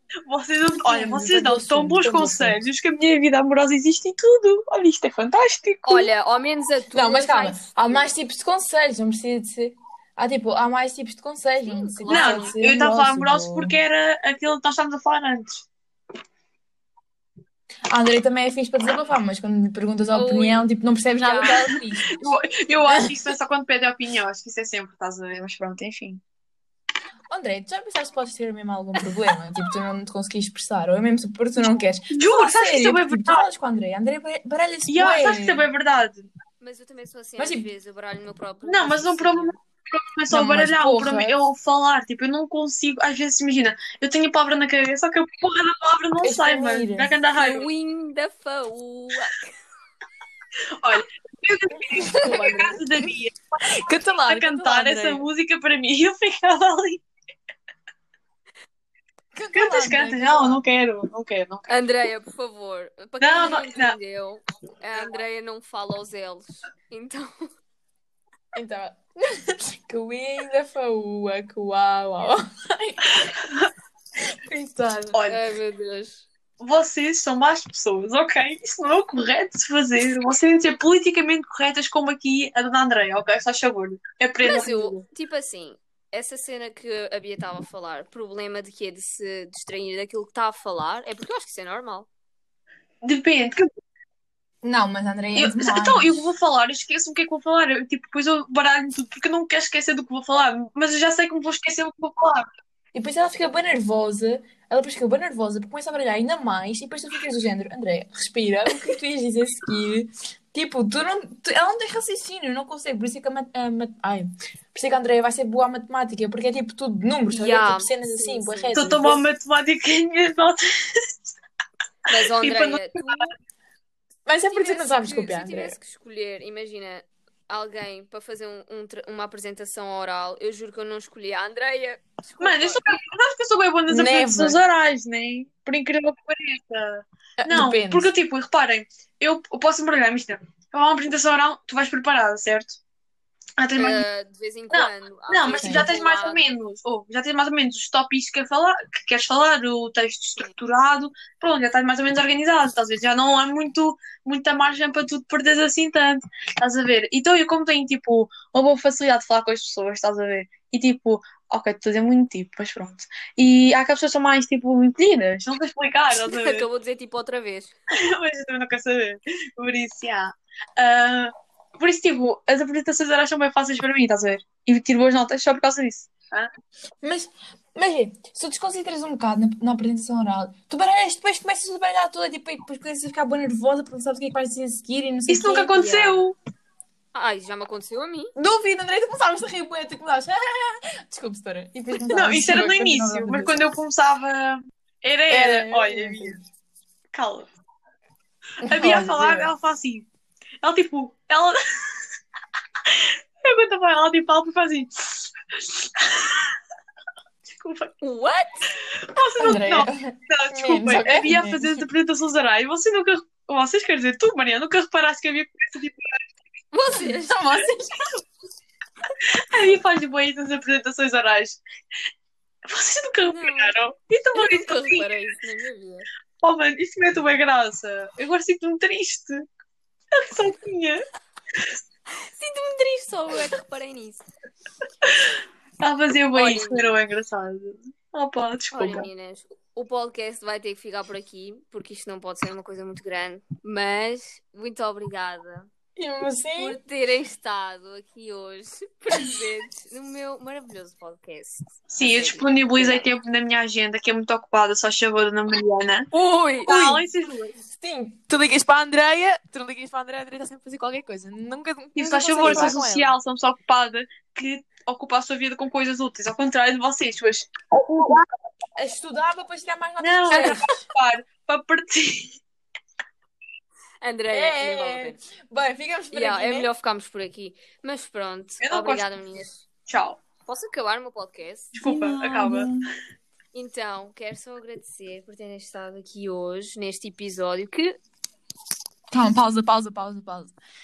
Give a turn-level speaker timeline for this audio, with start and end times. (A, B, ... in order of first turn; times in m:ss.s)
0:00.3-0:06.1 A
0:00.8-0:02.6 B
0:05.9-0:08.1 C
0:06.9-0:13.8 B
0:11.6-0:12.6 C
0:12.1-0:15.7 A
0:17.9-0:22.3 B
0:20.1-0:20.7 C
0:21.2-0:21.8 C
0:22.2-0:26.2 A
0:27.3-0:35.7 B
0:31.6-0:33.5 A
0:34.9-0:36.3 A
0:36.6-0:39.6 C
0:37.4-0:37.7 B
0:38.7-0:47.7 A
0:40.3-0:41.4 B
0:46.2-0:47.1 B
0:47.4-0:49.5 C
0:50.8-0:53.4 A
0:52.0-0:52.8 C
0:53.7-0:55.3 B
0:54.2-0:57.0 A
0:59.3-1:00.6 B
0:59.5-1:01.8 A
1:01.7-1:07.5 C
1:03.2-1:04.0 A
1:08.5-1:13.3 B
1:13.2-1:13.7 A
1:14.5-1:15.2 B
1:15.1-1:15.4 A
1:15.3-1:16.3 C
1:16.6-1:25.0 A
1:24.4-1:32.1 C
1:33.0-1:33.7 A
1:34.6-1:36.3 B
1:35.4-1:42.5 A
1:42.9-1:59.2 B
1:57.3-1:59.2 C
1:58.8-2:01.3 A
2:02.1-2:03.3 C
2:02.2-2:03.3 A
2:04.3-2:05.8 B
2:04.5-2:13.0 C
2:12.4-2:22.8 A
2:13.9-2:14.6 B
2:17.4-2:18.1 B
2:23.6-2:24.0 A
2:23.8-2:26.4 C
2:24.7-2:46.7 A
2:25.6-2:25.9 B
2:46.1-2:47.8 C
2:47.9-2:56.5 A
2:57.0-3:05.8 B
3:05.3-3:06.4 A
3:05.7-3:06.3 C
3:07.1-3:08.3 C
3:08.4-3:13.7 B
3:12.1-3:16.4 A
3:15.3-3:16.4 B
3:17.1-3:17.5 A
3:18.6-3:20.1 A
3:18.6-3:19.5 B
3:20.6-3:22.1 A
3:22.9-3:26.6 A
3:27.5-3:27.9 A
3:28.0-3:28.7 C
3:29.1-3:36.2 A
3:29.4-3:31.8 B
3:36.7-3:37.7 C
3:37.0-3:38.0 B
3:39.5-3:41.6 A
3:42.7-3:45.2 A
3:43.2-3:43.8 C
3:44.3-3:46.1 C
3:46.4-3:49.5 A
3:50.1-3:51.0 A
3:52.2-3:54.2 C
3:55.0-3:59.1 A
3:56.4-3:57.1 C
3:58.7-4:05.7 C
4:06.0-4:06.8 B
4:06.5-4:13.1 C
4:11.9-4:16.1 A
4:16.1-4:17.1 B
4:16.7-4:17.6 A
4:17.7-4:23.2 B
4:22.0-4:28.3 A
4:22.4-4:22.7 C
4:28.8-4:30.8 B
4:30.0-4:32.4 A
4:34.0-4:35.2 C
4:34.3-4:36.7 B
4:36.1-4:39.7 C
4:38.6-4:39.1 A
4:39.9-4:40.2 A
4:40.5-4:41.7 C
4:41.7-4:42.7 A
4:41.8-4:42.9 B
4:43.5-4:48.0 C
4:49.1-4:50.5 B